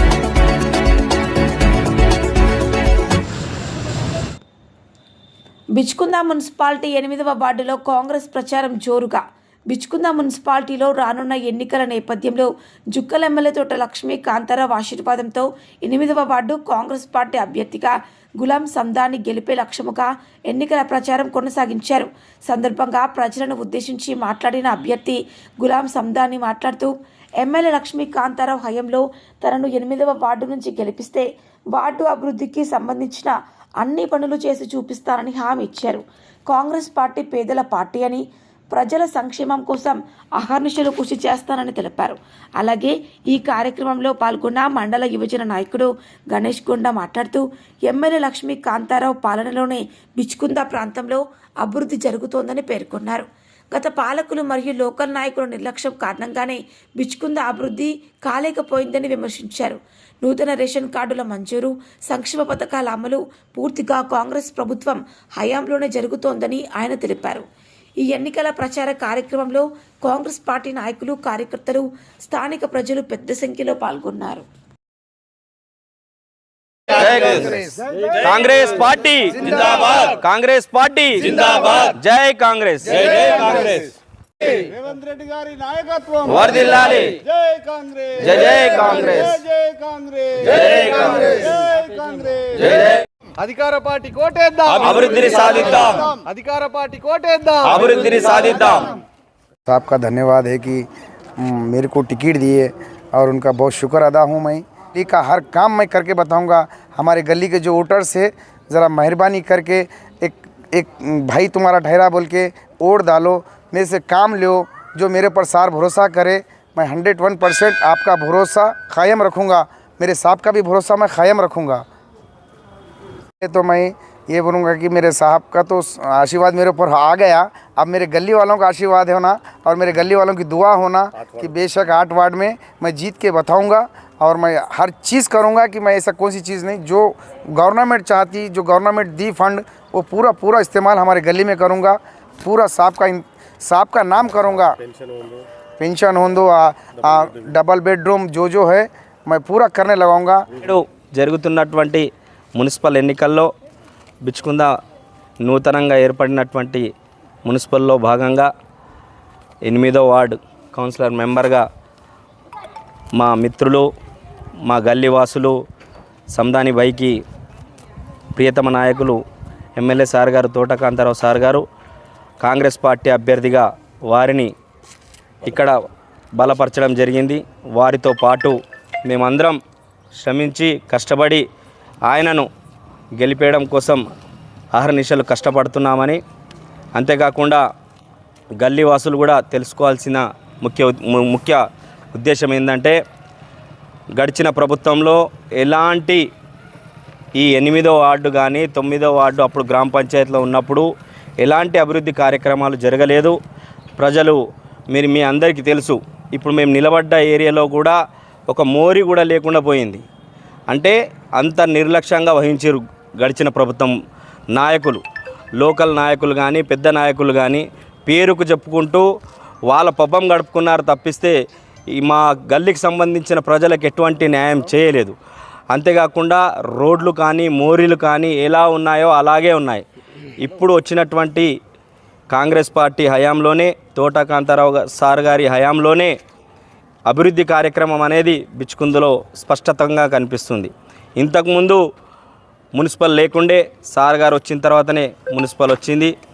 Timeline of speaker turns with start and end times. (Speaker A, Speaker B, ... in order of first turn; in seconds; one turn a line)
Speaker A: 5.7-67.5
Speaker A: 68.0-74.5
Speaker B: 76.9-77.6
Speaker B: 78.1-83.9
Speaker C: 79.4-79.8
Speaker D: 84.7-86.2
Speaker B: 86.2-87.2
Speaker D: 87.3-88.2
Speaker B: 88.2-89.4
Speaker D: 89.5-90.4
Speaker B: 90.4-91.5
Speaker D: 91.4-92.5
Speaker B: 92.6-93.0
Speaker D: 93.4-94.7
Speaker B: 94.6-96.2
Speaker D: 96.2-97.6
Speaker B: 97.6-99.0
Speaker C: 99.7-100.8
Speaker C: 101.4-121.8
Speaker C: 123.4-144.8
Speaker C: 145.8-150.4
Speaker B: 150.6-153.5
Speaker B: 154.2-154.7
Speaker B: 155.4-156.9
Speaker B: 157.4-158.5
Speaker B: 159.6-161.6
Speaker B: 163.1-163.9
Speaker B: 164.7-165.6
Speaker B: 166.3-167.2
Speaker B: 168.3-169.2
Speaker B: 169.8-171.6
Speaker B: 172.4-174.5
Speaker B: 175.4-175.7
Speaker B: 176.4-179.6
Speaker B: 180.2-181.4
Speaker B: 182.1-182.5
Speaker B: 183.2-184.0
Speaker B: 184.7-186.2
Speaker B: 186.9-187.6
Speaker B: 188.6-191.6
Speaker B: 192.1-193.0
Speaker B: 194.2-196.2
Speaker B: 197.4-200.9
Speaker B: 201.4-203.4
Speaker B: 204.0-208.0
Speaker B: 208.5-210.0
Speaker B: 210.7-213.9
Speaker B: 214.5-215.0
Speaker B: 215.6-219.1
Speaker B: 219.7-221.3
Speaker B: 221.9-225.1
Speaker B: 225.7-229.8
Speaker B: 230.4-231.5
Speaker B: 232.3-236.1
Speaker B: 237.1-241.8
Speaker B: 242.7-246.1